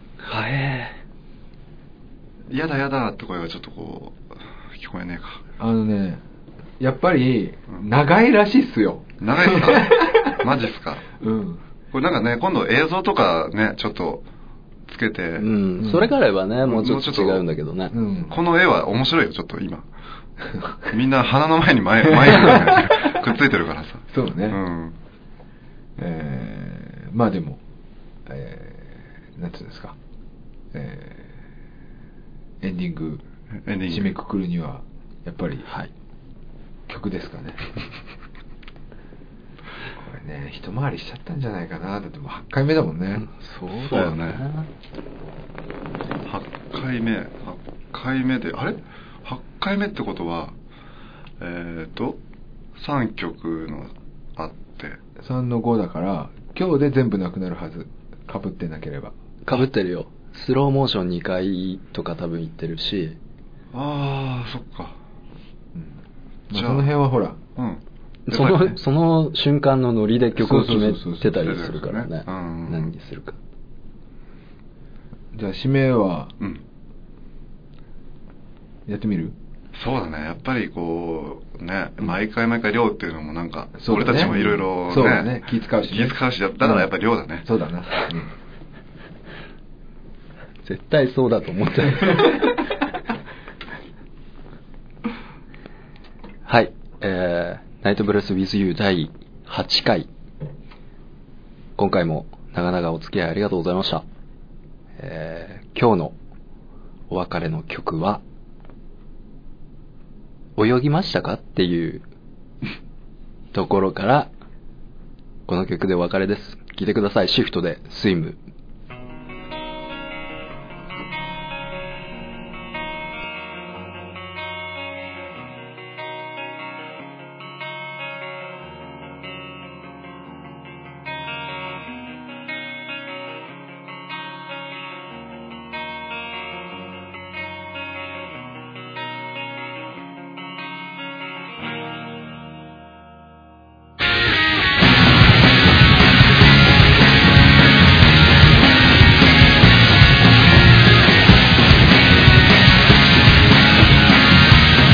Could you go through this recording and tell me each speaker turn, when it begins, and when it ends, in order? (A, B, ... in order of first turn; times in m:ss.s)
0:00.2-0:01.0 A
0:02.5-0:05.4 B
0:05.6-0:06.2 C
0:06.8-0:10.4 C
0:09.2-0:11.1 B
0:11.2-0:11.6 C
0:11.9-0:14.2 B
0:14.9-0:15.5 B
0:15.4-0:17.9 A
0:15.8-0:16.1 C
0:16.6-0:17.4 B
0:17.9-0:18.4 C
0:18.3-0:19.9 B
0:20.9-0:25.0 B
0:22.3-0:23.1 C
0:24.1-0:24.6 C
0:26.0-0:27.6 C
0:28.3-0:30.0 C
0:30.7-0:31.4 C
0:32.6-0:33.2 C
0:33.6-0:34.1 B
0:33.9-0:35.7 C
0:36.9-0:37.7 C
0:40.0-0:43.3 C
0:43.2-0:44.7 A
0:43.8-0:44.4 B
0:46.3-0:50.6 B
0:51.4-0:52.2 B
0:52.8-0:55.0 B
0:55.2-0:59.1 C
0:59.5-1:03.2 A
1:03.7-1:05.0 B
1:06.5-1:07.4 C
1:06.5-1:06.9 B
1:07.6-1:08.8 B
1:08.3-1:13.4 A
1:10.4-1:11.5 C
1:11.3-1:12.9 B
1:15.3-1:16.3 C
1:18.9-1:19.4 C
1:19.7-1:27.5 B
1:23.8-1:26.9 C
1:27.4-1:28.3 C
1:30.6-1:32.6 A
1:36.5-1:40.1 A
1:41.8-1:44.0 A
1:45.0-1:46.2 A
1:47.1-1:48.2 A
1:50.6-1:52.0 A
1:53.5-1:54.3 A
1:55.5-1:58.4 A